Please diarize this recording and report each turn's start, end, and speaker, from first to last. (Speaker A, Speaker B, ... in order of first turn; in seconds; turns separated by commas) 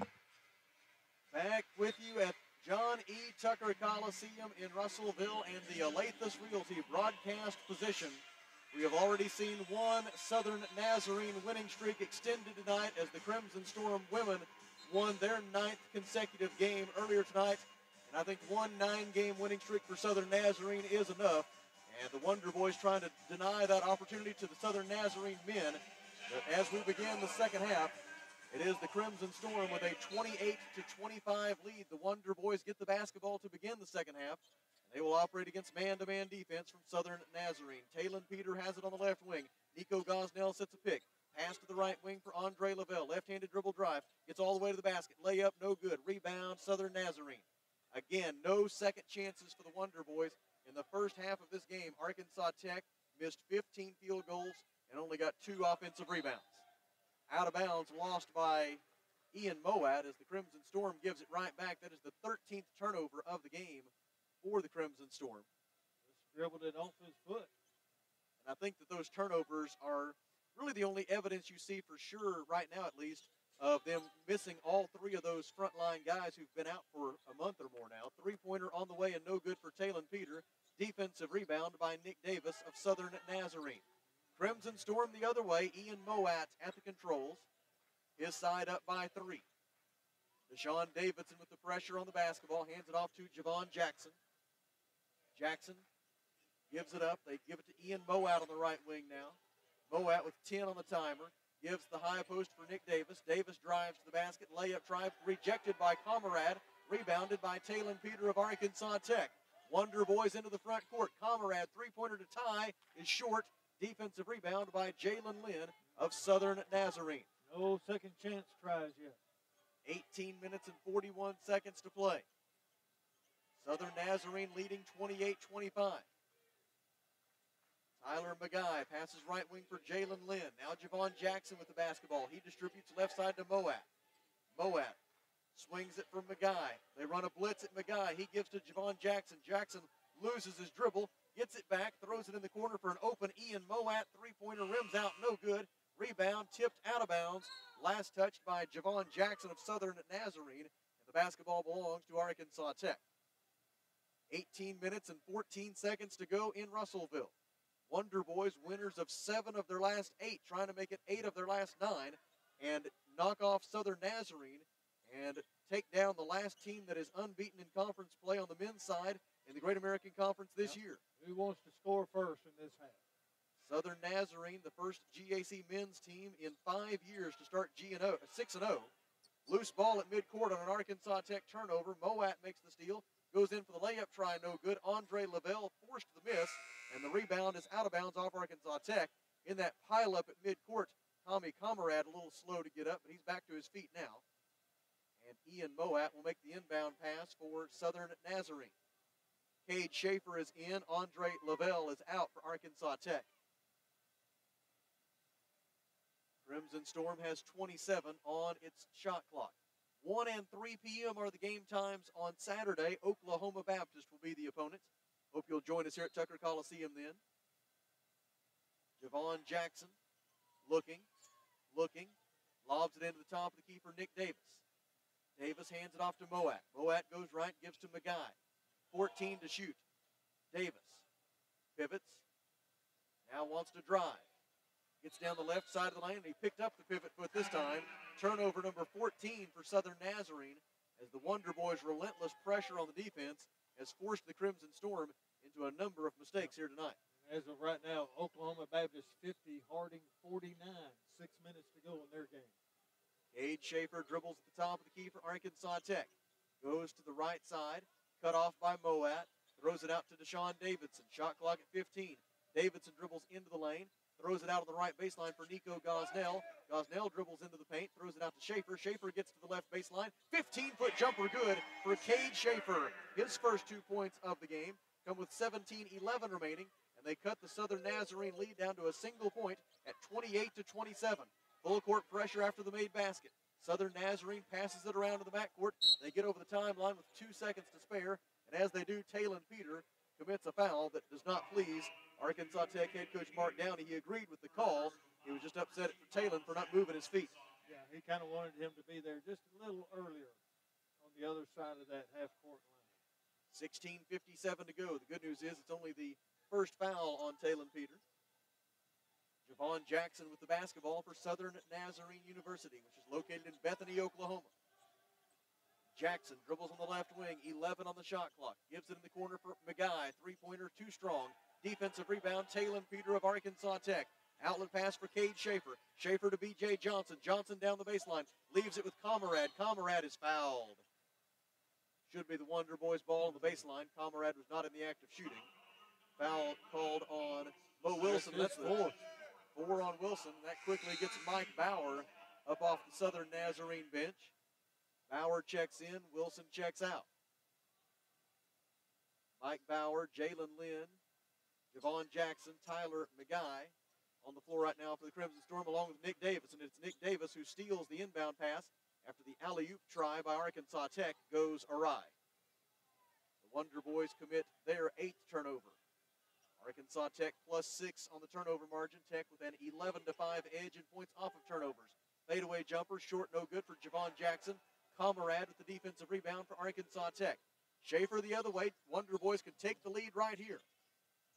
Speaker A: 1.3-28.0, Speaker A: 28.5-56.6, Speaker A: 57.3-58.8, Speaker A: 59.3-65.5, Speaker B: 66.1-67.5, Speaker A: 68.4-83.8, Speaker A: 84.3-87.5, Speaker A: 88.2-89.4, Speaker A: 90.5-94.2, Speaker A: 95.3-95.8, Speaker A: 96.7-99.4, Speaker A: 99.9-117.3, Speaker B: 117.5-119.2, Speaker A: 119.8-122.2, Speaker A: 123.6-126.0, Speaker A: 128.0-133.9, Speaker A: 134.5-135.0, Speaker A: 135.5-153.0, Speaker A: 154.3-157.3, Speaker A: 157.9-171.0, Speaker B: 170.6-173.0, Speaker A: 173.6-178.9, Speaker A: 179.4-194.2, Speaker A: 195.2-198.7, Speaker A: 199.7-203.3, Speaker A: 206.4-217.2, Speaker A: 219.0-219.9, Speaker A: 220.6-221.1, Speaker A: 221.7-224.6, Speaker A: 225.4-228.3, Speaker A: 228.9-229.8, Speaker A: 230.5-231.0, Speaker A: 231.8-232.2, Speaker A: 233.3-234.2, Speaker A: 235.0-247.0, Speaker B: 247.2-252.5, Speaker A: 253.3-297.3, Speaker B: 297.6-300.4, Speaker B: 301.0-302.9, Speaker A: 303.5-308.0, Speaker A: 309.4-314.5, Speaker A: 315.9-330.8, Speaker A: 332.1-335.5, Speaker B: 333.2-333.6, Speaker A: 336.2-339.0, Speaker B: 338.0-338.9, Speaker A: 339.5-344.3, Speaker A: 345.1-347.1, Speaker A: 349.4-351.0, Speaker A: 351.7-362.1, Speaker A: 363.4-365.8, Speaker A: 366.6-380.6